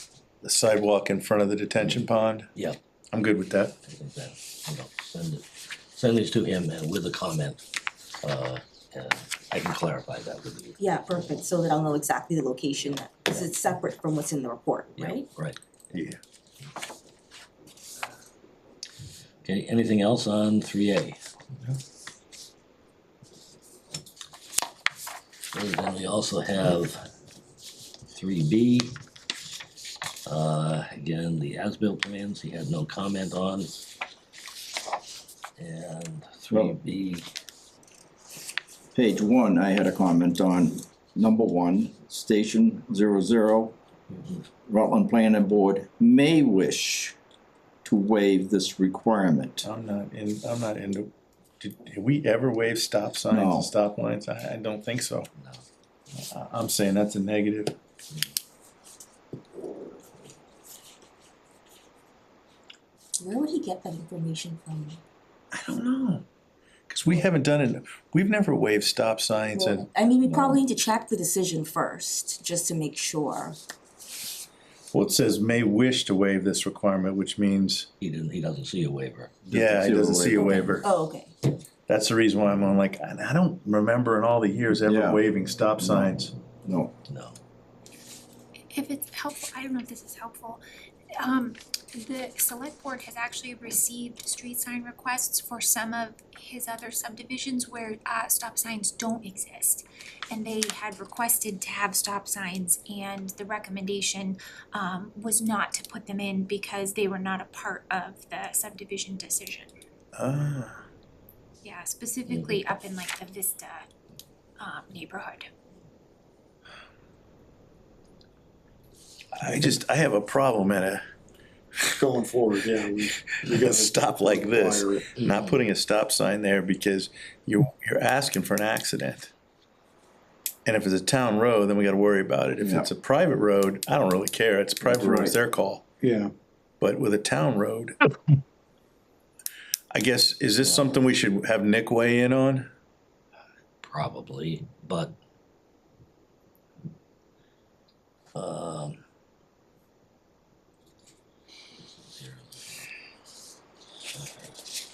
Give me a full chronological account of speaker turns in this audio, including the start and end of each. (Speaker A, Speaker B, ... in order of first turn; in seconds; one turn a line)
Speaker A: 0.4-2.5
Speaker B: 1.8-2.8
Speaker A: 3.1-3.8
Speaker B: 3.8-7.6
Speaker B: 8.2-10.8
Speaker C: 10.8-15.3
Speaker B: 12.9-13.5
Speaker B: 14.9-15.6
Speaker A: 15.9-16.2
Speaker B: 19.4-21.2
Speaker B: 25.5-27.0
Speaker B: 28.1-29.0
Speaker B: 30.2-33.8
Speaker B: 35.6-37.3
Speaker D: 38.9-43.8
Speaker D: 44.6-47.2
Speaker D: 47.8-49.6
Speaker A: 49.6-55.3
Speaker D: 53.3-53.7
Speaker A: 56.1-57.8
Speaker C: 63.2-65.0
Speaker A: 65.5-66.2
Speaker A: 66.9-69.9
Speaker C: 69.5-73.6
Speaker B: 70.3-70.6
Speaker A: 74.9-77.9
Speaker B: 78.0-79.3
Speaker D: 79.5-80.4
Speaker A: 79.5-80.8
Speaker C: 80.3-81.3
Speaker A: 81.9-86.3
Speaker D: 84.8-85.2
Speaker D: 85.8-86.9
Speaker B: 87.1-87.4
Speaker E: 88.7-90.6
Speaker E: 91.2-109.7
Speaker A: 110.1-110.8
Speaker E: 111.6-113.8
Speaker E: 114.6-115.5
Speaker A: 119.3-121.0
Speaker F: 121.9-125.1
Speaker A: 123.4-129.3
Speaker A: 130.6-135.8
Speaker D: 132.6-132.9
Speaker D: 134.8-135.4
Speaker F: 136.0-136.3
Speaker A: 136.8-138.0
Speaker A: 139.9-142.7
Speaker B: 143.8-145.2
Speaker B: 148.3-149.0
Speaker B: 151.9-152.9
Speaker B: 154.1-154.5